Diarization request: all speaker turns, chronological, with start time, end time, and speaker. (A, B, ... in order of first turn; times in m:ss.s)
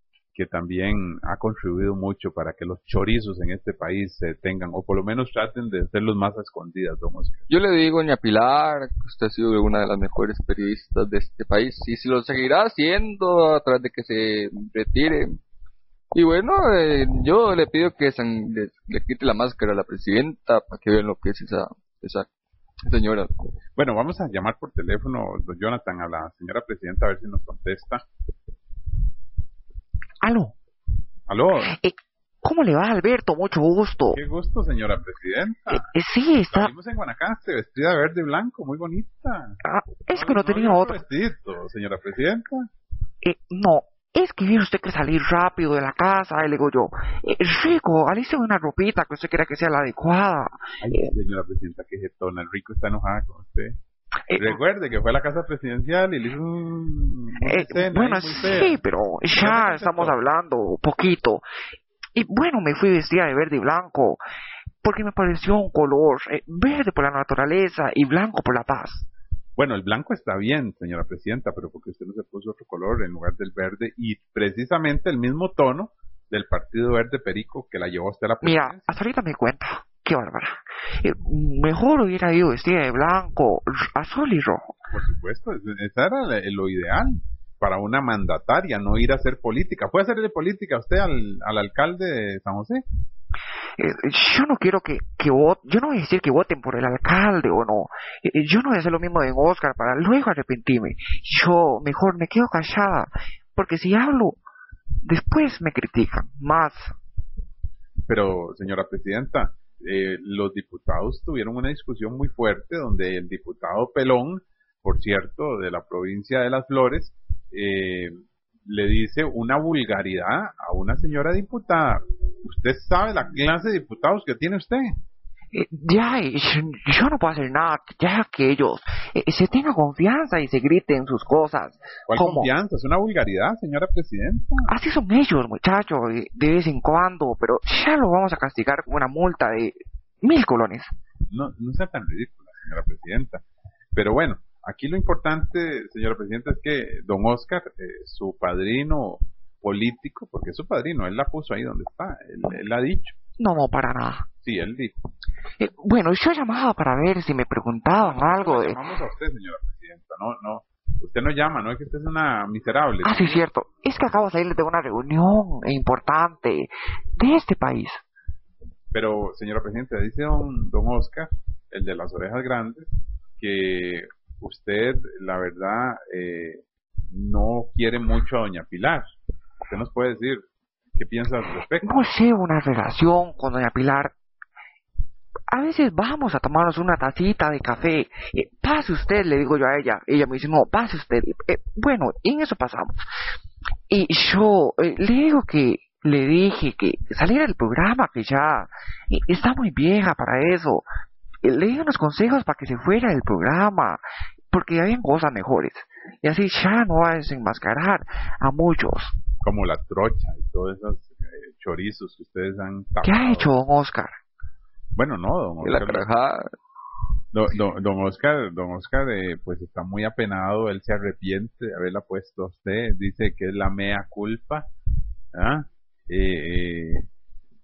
0:00.3-0:07.4 A
0:07.5-0:15.4 B
0:16.1-0:22.3 B
0:22.8-0:23.3 B
0:23.8-0:28.0 A
0:30.2-0:30.5 C
0:31.3-0:31.7 A
0:31.6-0:34.2 C
0:34.1-0:35.9 A
0:35.7-0:36.7 C
0:36.5-0:39.6 A
0:39.6-0:41.0 C
0:40.1-0:42.7 A
0:43.2-0:51.1 C
0:50.8-0:53.8 A
0:54.3-0:54.6 C
0:54.3-0:58.8 A
0:57.4-1:01.4 C
0:59.3-1:00.2 A
1:02.1-1:04.2 C
1:04.8-1:09.1 C
1:09.6-1:18.8 A
1:18.4-1:24.7 C
1:24.9-1:32.8 A
1:33.8-1:44.4 C
1:45.0-1:46.9 C
1:48.1-2:05.0 A
2:05.5-2:12.5 C
2:12.1-2:14.7 A
2:14.7-2:20.9 C
2:21.3-2:23.4 A
2:23.9-2:33.2 A
2:33.4-2:34.3 C
2:34.4-2:34.9 A
2:35.6-2:38.8 C
2:37.9-2:43.4 A
2:43.0-2:48.0 C
2:48.9-2:59.1 A
2:59.6-3:00.4 A
3:01.0-3:02.1 A
3:01.8-3:04.1 C
3:05.5-3:13.0 C
3:13.9-3:20.9 C
3:21.4-3:29.1 C
3:29.4-3:33.5 A
3:33.0-3:34.2 C
3:34.9-3:36.0 A
3:35.6-3:36.4 B
3:37.3-3:44.7 A
3:45.3-3:47.0 A